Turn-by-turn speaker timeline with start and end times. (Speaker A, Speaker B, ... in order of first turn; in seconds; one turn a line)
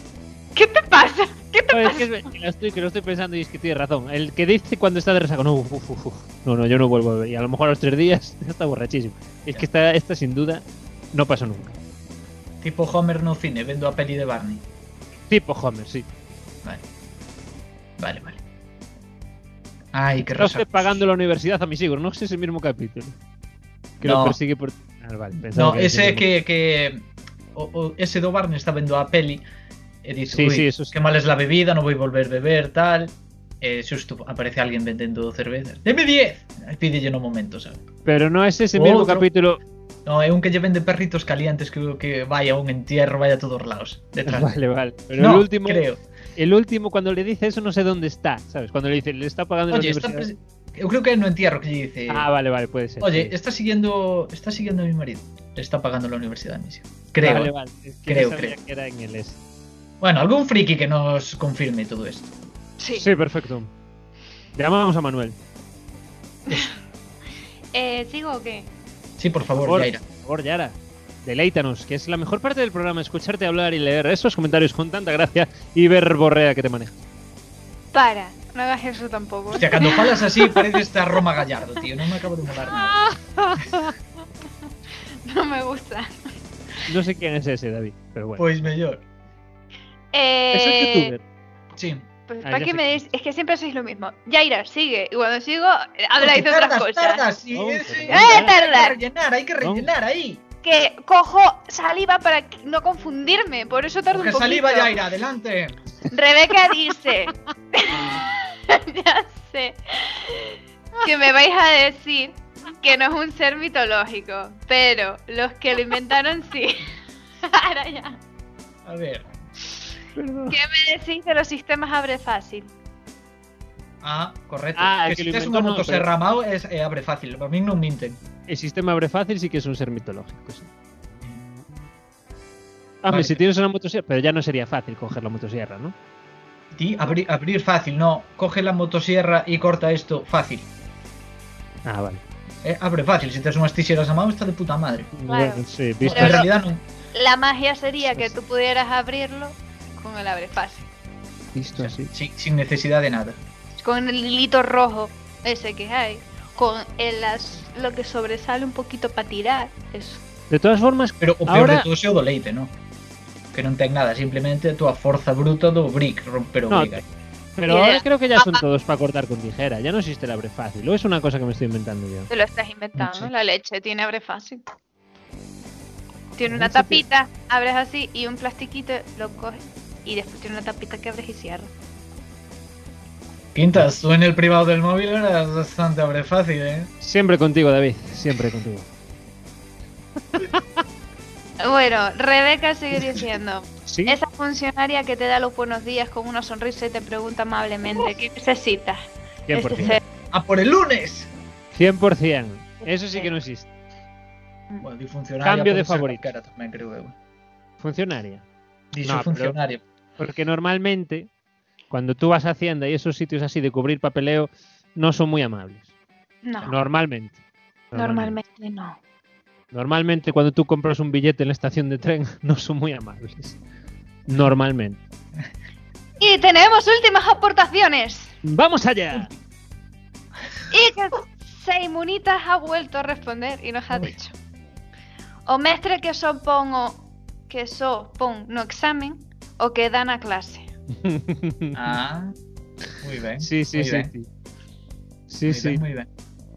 Speaker A: 0.6-2.3
Speaker B: 1.7-11.8
Speaker C: 12.6-14.6
Speaker B: 15.3-16.1
Speaker C: 18.0-18.4
Speaker C: 19.9-21.0
Speaker B: 20.2-23.1
Speaker C: 24.0-24.4
Speaker B: 24.0-26.3
Speaker C: 25.4-29.4
Speaker C: 30.0-37.8
Speaker B: 30.3-30.9
Speaker B: 38.0-39.6
Speaker C: 38.7-39.3
Speaker C: 40.0-44.6
Speaker B: 44.3-45.8
Speaker C: 45.1-46.0
Speaker B: 46.4-50.3
Speaker C: 49.7-52.3
Speaker B: 52.1-53.4
Speaker C: 53.0-57.5
Speaker B: 57.2-59.4
Speaker C: 58.1-58.6
Speaker C: 60.0-62.3
Speaker A: 62.8-63.1
Speaker B: 63.0-63.7
Speaker B: 64.5-65.4
Speaker A: 66.5-66.7
Speaker A: 67.7-68.7
Speaker C: 69.2-70.0
Speaker B: 69.7-77.0
Speaker A: 77.9-81.2
Speaker C: 79.5-83.0
Speaker B: 82.8-83.9
Speaker A: 85.3-86.1
Speaker B: 86.9-88.4
Speaker C: 88.4-89.0
Speaker A: 90.1-91.1
Speaker B: 90.5-91.2
Speaker C: 91.8-92.0
Speaker A: 92.3-97.2
Speaker B: 92.5-93.0
Speaker C: 96.2-100.4
Speaker B: 97.5-98.5
Speaker A: 98.1-99.0
Speaker B: 99.6-99.9
Speaker A: 100.6-104.9
Speaker C: 104.1-105.8
Speaker A: 106.1-116.9
Speaker A: 117.4-118.2
Speaker C: 118.8-119.3
Speaker B: 120.2-120.6
Speaker A: 120.5-122.7
Speaker C: 124.0-128.2
Speaker B: 124.8-126.1
Speaker B: 128.5-130.7
Speaker B: 133.0-135.9
Speaker C: 133.1-133.4
Speaker C: 136.7-140.7
Speaker B: 141.9-142.2
Speaker C: 142.6-145.1
Speaker B: 145.2-146.4
Speaker A: 145.3-146.5
Speaker C: 146.0-146.8
Speaker A: 147.1-150.9
Speaker B: 151.6-152.1
Speaker C: 151.8-153.4
Speaker A: 153.8-160.2
Speaker B: 160.5-161.9
Speaker C: 161.2-162.7
Speaker C: 163.5-167.0
Speaker B: 166.7-167.0
Speaker B: 167.6-172.3
Speaker A: 167.7-168.6
Speaker A: 172.3-174.6
Speaker A: 176.4-181.7
Speaker B: 176.5-177.0
Speaker C: 183.5-186.9
Speaker B: 187.0-188.9
Speaker B: 190.4-190.6
Speaker A: 191.6-199.0
Speaker B: 193.9-194.2
Speaker B: 199.5-200.0
Speaker A: 199.5-200.0
Speaker C: 200.3-201.3
Speaker B: 201.7-203.7
Speaker A: 202.9-203.3
Speaker C: 204.8-207.1
Speaker B: 205.4-206.3
Speaker B: 207.8-208.4
Speaker C: 208.9-209.8
Speaker B: 209.0-209.6
Speaker B: 210.2-211.3
Speaker B: 211.9-215.8
Speaker A: 216.4-216.7
Speaker B: 216.7-217.3
Speaker B: 217.9-218.4
Speaker A: 217.9-219.0
Speaker B: 219.7-223.6
Speaker B: 224.3-225.0
Speaker A: 226.2-228.3
Speaker B: 228.4-229.3
Speaker A: 230.7-234.3
Speaker A: 235.5-240.7
Speaker B: 241.0-242.0
Speaker C: 241.7-242.3
Speaker C: 243.0-244.1
Speaker B: 243.4-244.3
Speaker B: 245.3-245.8
Speaker C: 245.5-246.1